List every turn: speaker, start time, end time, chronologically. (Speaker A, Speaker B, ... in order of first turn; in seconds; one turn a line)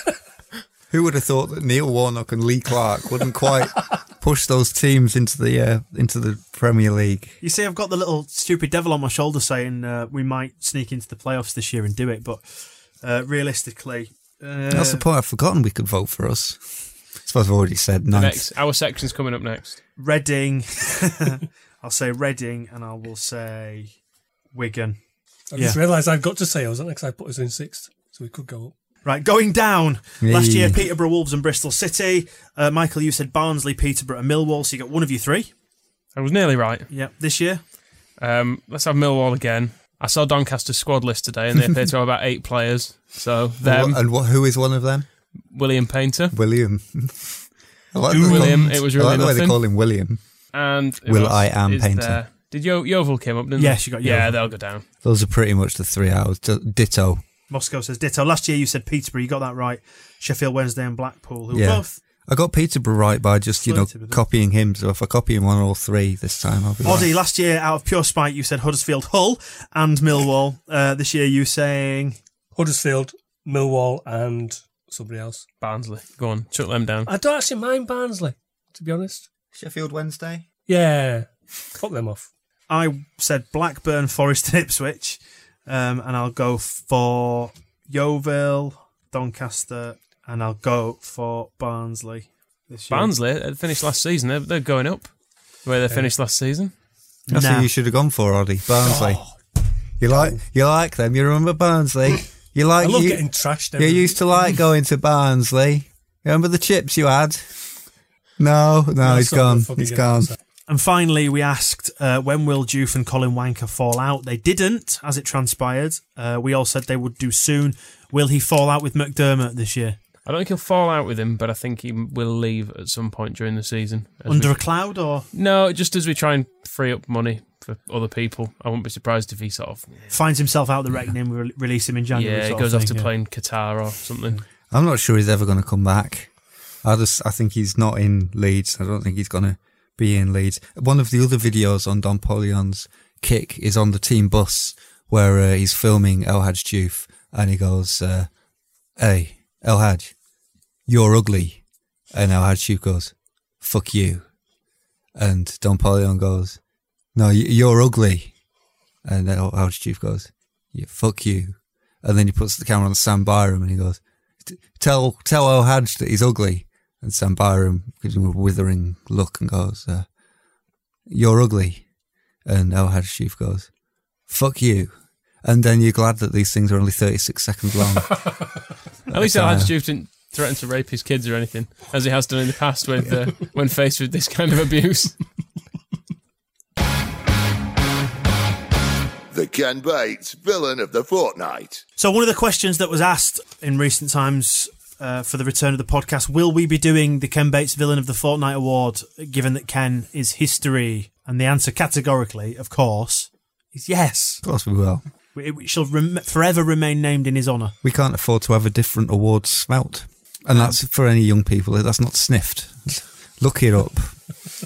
Speaker A: 0.9-7.4
Speaker B: 7.4-15.1
Speaker A: 14.7-18.5
Speaker C: 18.1-19.8
Speaker B: 20.0-23.9
Speaker B: 24.5-25.0
Speaker D: 25.5-28.7
Speaker B: 25.6-25.8
Speaker B: 29.0-35.5
Speaker A: 30.2-30.8
Speaker C: 36.1-36.9
Speaker B: 36.9-37.6
Speaker C: 38.2-44.0
Speaker A: 43.6-45.1
Speaker C: 45.5-46.4
Speaker A: 46.3-52.2
Speaker D: 48.1-48.8
Speaker C: 48.2-49.6
Speaker C: 50.5-54.9
Speaker B: 53.6-54.4
Speaker A: 55.0-57.2
Speaker B: 57.5-62.0
Speaker A: 61.5-67.1
Speaker B: 63.6-64.2
Speaker B: 66.8-72.2
Speaker D: 72.5-75.5
Speaker C: 75.6-77.1
Speaker D: 77.0-79.3
Speaker A: 79.5-80.5
Speaker D: 80.7-82.3
Speaker B: 82.7-93.1
Speaker C: 92.9-96.7
Speaker B: 97.3-97.7
Speaker A: 97.3-99.3
Speaker D: 98.8-99.4
Speaker A: 100.0-107.7
Speaker D: 100.1-100.4
Speaker D: 102.8-104.6
Speaker A: 108.4-110.3
Speaker D: 109.0-110.4
Speaker B: 110.7-120.0
Speaker C: 120.2-130.2
Speaker B: 124.3-125.3
Speaker B: 130.1-133.1
Speaker C: 132.1-134.4
Speaker A: 134.7-148.3
Speaker A: 149.0-150.1
Speaker A: 150.9-154.3
Speaker A: 155.2-156.6
Speaker A: 157.2-158.3
Speaker A: 159.0-170.1
Speaker A: 171.1-171.9
Speaker A: 172.4-173.7
Speaker A: 174.3-178.5
Speaker A: 179.1-179.7
Speaker C: 179.1-185.2
Speaker E: 189.3-191.8
Speaker B: 192.0-204.4
Speaker A: 204.4-205.1
Speaker B: 205.3-207.8
Speaker A: 207.8-214.3
Speaker B: 210.5-210.8